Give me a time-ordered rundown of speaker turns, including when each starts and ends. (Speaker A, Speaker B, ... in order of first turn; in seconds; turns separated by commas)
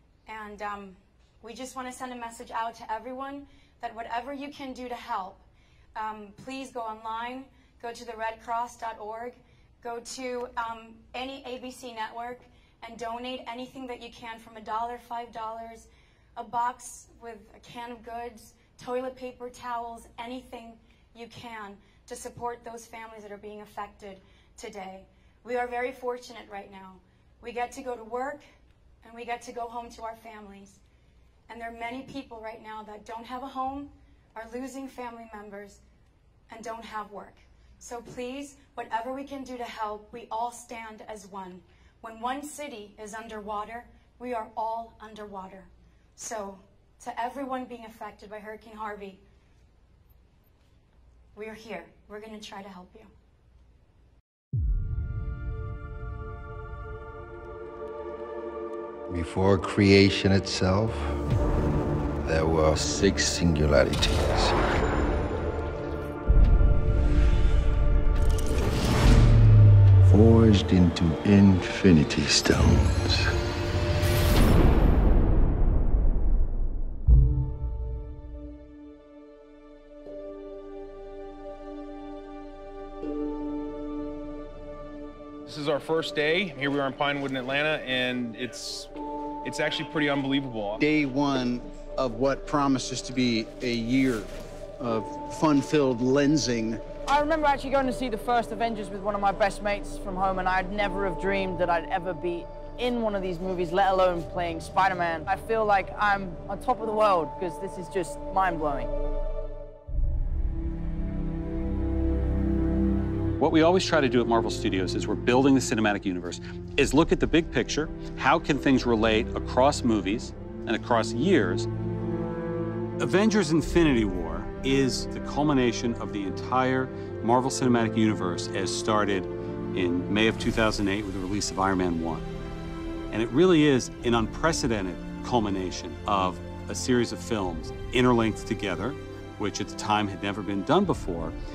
Speaker A: 0.3-5.4, Speaker A: 6.0-28.4, Speaker A: 29.0-30.8, Speaker A: 31.5-35.8, Speaker A: 36.5-49.2, Speaker A: 51.4-53.1, Speaker B: 59.1-61.2, Speaker B: 62.2-64.6, Speaker B: 70.1-73.2, Speaker C: 85.5-88.9, Speaker C: 89.4-90.8, Speaker D: 90.8-96.8, Speaker E: 97.1-108.9, Speaker F: 113.4-121.7, Speaker F: 123.0-132.3, Speaker F: 133.1-141.3